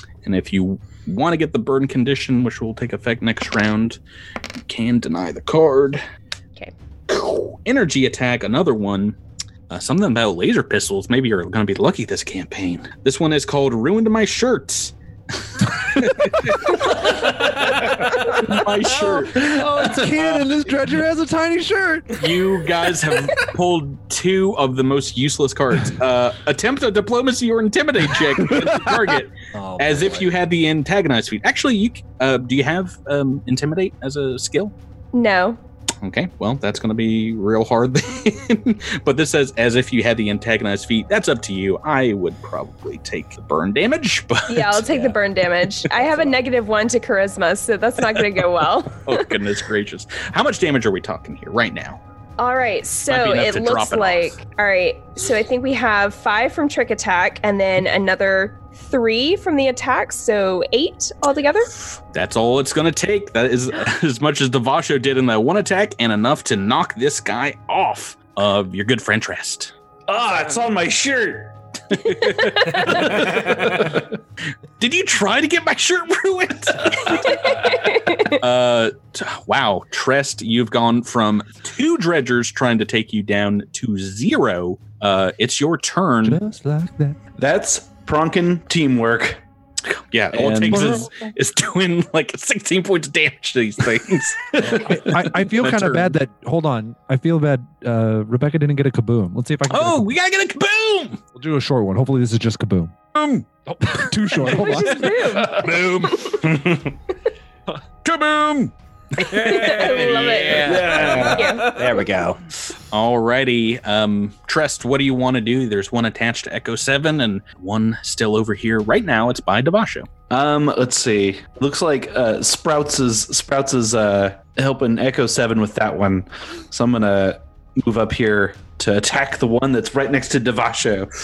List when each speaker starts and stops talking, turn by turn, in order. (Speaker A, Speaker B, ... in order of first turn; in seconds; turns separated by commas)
Speaker A: 0.2-4.0, Speaker A: 4.7-6.0, Speaker A: 7.1-9.2, Speaker A: 9.7-14.9, Speaker A: 15.6-20.0, Speaker B: 15.9-16.5, Speaker B: 17.5-22.3, Speaker A: 22.2-34.7, Speaker C: 29.6-30.3, Speaker D: 35.1-35.6, Speaker A: 36.0-44.9, Speaker D: 44.5-49.3, Speaker C: 44.9-45.2, Speaker C: 45.9-46.3, Speaker A: 49.0-52.0, Speaker D: 52.4-61.7, Speaker A: 53.1-54.4, Speaker A: 62.0-69.7, Speaker E: 70.1-71.5, Speaker A: 71.9-73.9, Speaker E: 72.9-74.0, Speaker A: 74.8-86.4, Speaker D: 77.2-78.3, Speaker B: 86.2-87.2, Speaker E: 87.4-89.4, Speaker A: 89.9-96.2, Speaker E: 90.3-91.1, Speaker B: 90.7-91.0, Speaker E: 94.6-95.0, Speaker B: 94.6-100.1, Speaker A: 99.7-101.2, Speaker B: 101.3-105.3, Speaker D: 104.7-106.4, Speaker A: 105.5-106.1, Speaker C: 106.4-106.9, Speaker E: 108.1-108.7, Speaker A: 109.2-111.2, Speaker D: 109.3-111.8, Speaker E: 110.6-111.6, Speaker C: 110.7-112.4, Speaker A: 112.9-120.1, Speaker E: 120.3-131.1